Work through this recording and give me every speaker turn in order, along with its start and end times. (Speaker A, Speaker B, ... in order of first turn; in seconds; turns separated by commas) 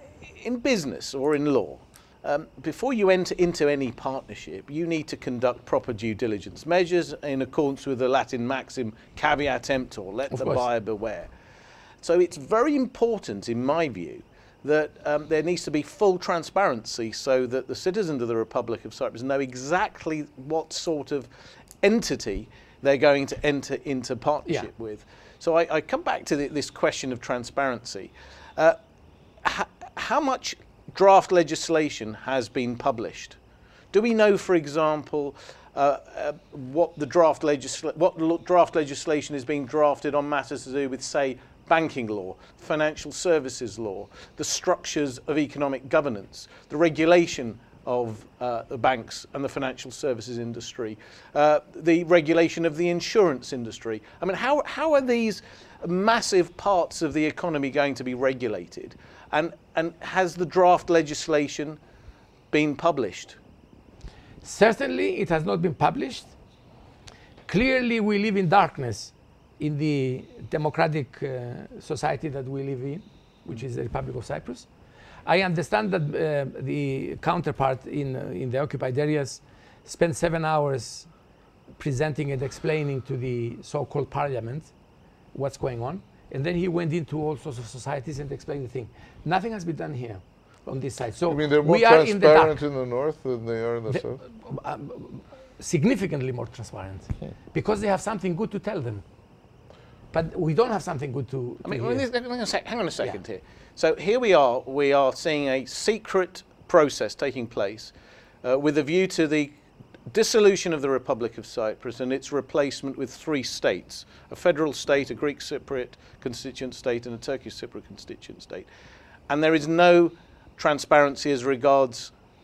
Speaker A: 0.2-11.3, Speaker B: 10.3-10.6, Speaker A: 12.0-21.3, Speaker A: 21.8-28.8, Speaker A: 29.4-33.4, Speaker A: 33.9-61.8, Speaker A: 62.5-63.4, Speaker B: 64.4-66.3, Speaker B: 67.5-74.7, Speaker B: 75.3-81.1, Speaker B: 81.8-84.7, Speaker B: 85.3-92.6, Speaker C: 91.3-94.2, Speaker B: 93.9-99.0, Speaker B: 100.1-102.0, Speaker A: 101.6-107.9, Speaker A: 108.4-109.5, Speaker A: 110.1-118.7, Speaker A: 119.3-122.1